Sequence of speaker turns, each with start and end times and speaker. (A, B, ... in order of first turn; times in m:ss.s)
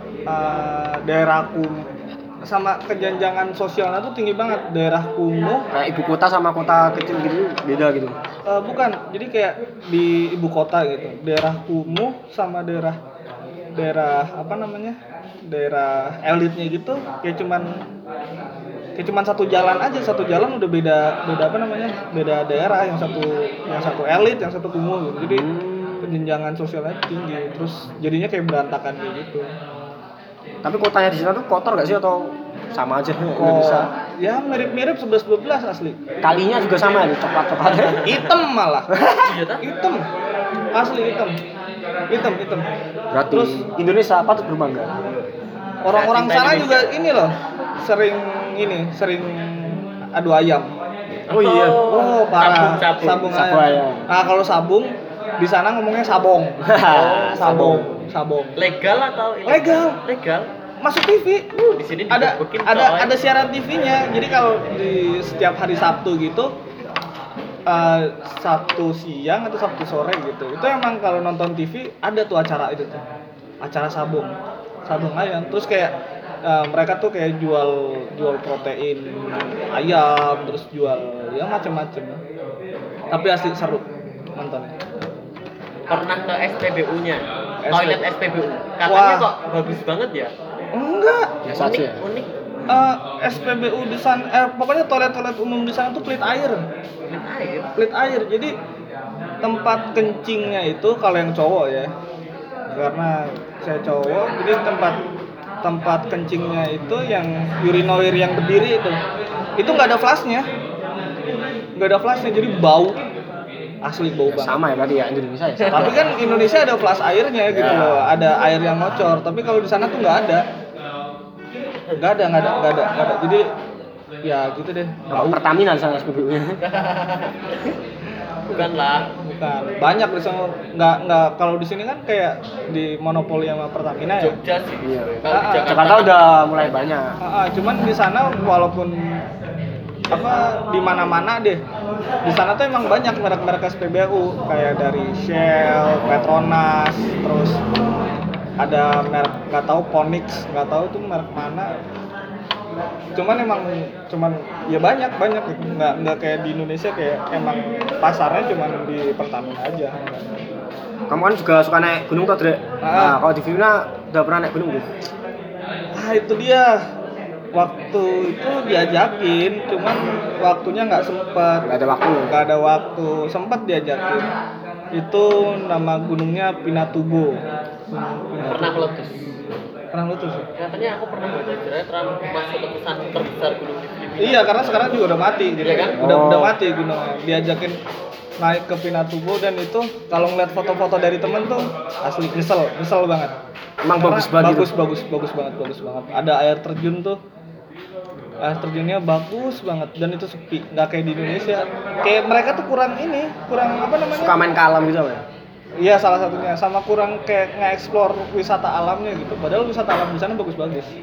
0:00.3-0:01.8 A
0:02.4-0:05.6 A
0:05.7-0:08.2 B
0:08.5-0:13.0 A
0:13.8-0:17.7 A
0:19.0-0:25.5 A
0:25.3-0:26.2 B
0:26.0-0:29.5 A
0:30.6-0:33.9 B
0:33.4-0:36.0 A
0:36.2-0:38.2 B
0:37.7-0:38.0 C
0:38.0-0:38.9 A
0:38.9-0:39.4 B
0:39.2-0:39.6 C
0:39.6-0:40.0 A
0:40.8-0:41.4 A
0:42.1-0:42.7 A
0:43.1-0:44.9 B
0:43.3-0:43.7 A
0:45.0-0:45.3 C
0:45.8-0:50.7 A
0:45.9-0:46.9 C
0:51.3-0:51.9 B
0:51.3-0:53.3 C
0:51.9-0:56.6 A
0:53.2-0:54.1 B
0:56.6-0:57.9 B
0:56.9-0:57.5 C
0:57.4-0:58.6 A
0:58.6-1:00.5 C
0:59.5-1:00.0 A
1:00.8-1:01.5 A
1:01.6-1:03.1 C
1:02.1-1:06.5 A
1:07.7-1:13.0 A
1:13.6-1:14.3 A
1:14.9-1:22.2 A
1:23.1-1:23.8 A
1:24.4-1:24.7 A
1:25.9-1:30.3 C
1:27.6-1:28.0 A
1:28.8-1:29.3 A
1:30.8-1:31.3 A
1:31.4-1:32.0 B
1:31.5-1:32.3 C
1:32.7-1:36.6 A
1:37.1-1:37.7 C
1:37.8-1:38.5 A
1:39.4-1:41.9 A
1:42.8-1:45.0 A
1:45.6-1:49.0 A
1:49.6-1:50.5 A
1:51.8-1:53.0 A
1:53.8-1:54.6 A
1:54.3-1:56.0 B
1:55.7-2:00.4 A
1:55.7-1:56.1 C
1:57.5-1:58.0 C
2:02.0-2:03.5 A
2:04.2-2:05.4 A
2:05.1-2:06.6 B
2:06.6-2:07.7 C
2:08.5-2:09.0 C
2:08.5-2:14.4 A
2:14.2-2:16.9 C
2:14.8-2:17.2 B
2:15.3-2:15.8 A
2:17.2-2:19.2 A
2:20.1-2:21.6 A
2:22.2-2:27.6 A
2:26.1-2:26.3 B
2:28.6-2:31.7 A
2:33.2-2:40.2 A
2:41.1-2:44.9 B
2:42.8-2:43.2 A
2:46.0-2:46.8 A
2:47.5-2:51.7 A
2:51.6-2:52.4 B
2:52.3-2:54.3 A
2:54.9-2:57.4 A
2:57.9-2:58.9 A
2:58.4-2:59.1 C
2:59.9-3:00.5 A
3:00.6-3:05.0 C
3:04.2-3:07.8 A
3:05.6-3:06.0 C
3:06.0-3:06.6 B
3:08.4-3:13.3 A
3:13.8-3:14.7 B
3:13.9-3:17.2 A
3:18.4-3:24.4 A
3:24.1-3:25.2 B
3:25.8-3:30.9 A